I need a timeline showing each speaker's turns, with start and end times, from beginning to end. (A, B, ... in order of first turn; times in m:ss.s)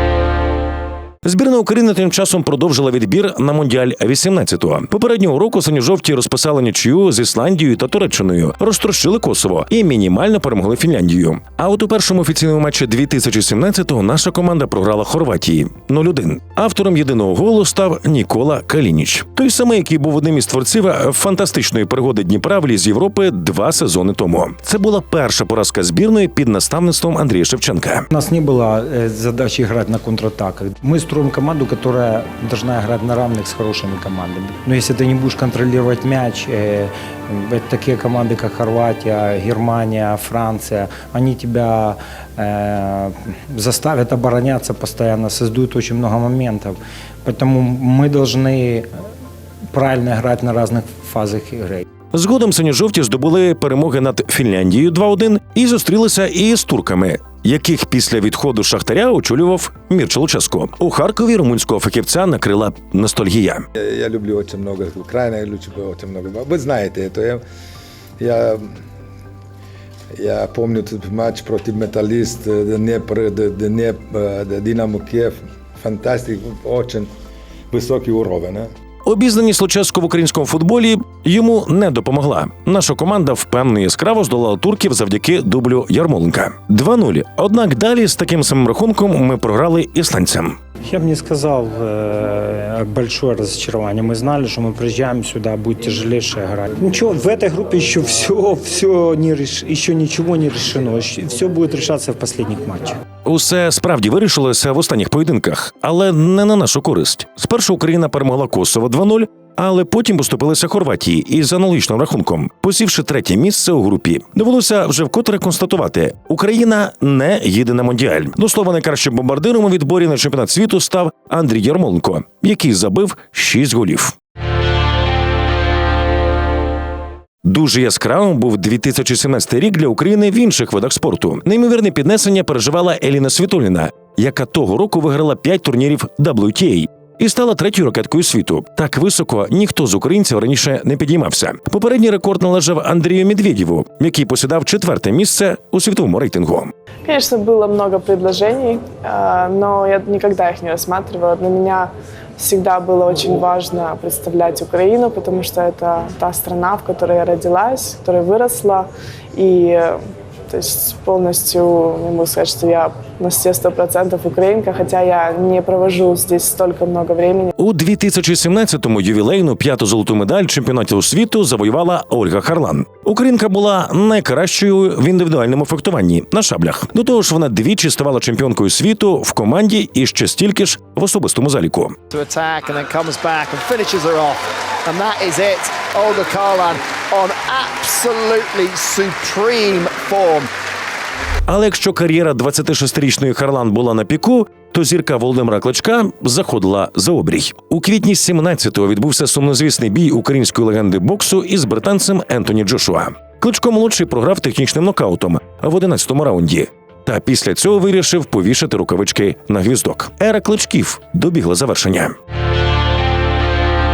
0:01.2-0:28.0 A
0:28.1-0:48.9 B
0:49.7-0:51.8 B
0:52.1-1:03.6 A
1:03.8-1:07.4 C
1:08.2-1:08.7 C
1:10.2-1:17.1 C
1:17.7-1:18.7 C
1:19.0-1:30.6 A
1:30.9-1:43.0 B
1:43.2-2:04.1 A
2:07.4-2:26.7 A
2:27.0-2:40.0 D
2:40.5-2:47.5 D
2:47.6-3:02.0 A
3:02.1-3:10.5 E
3:11.5-3:32.1 A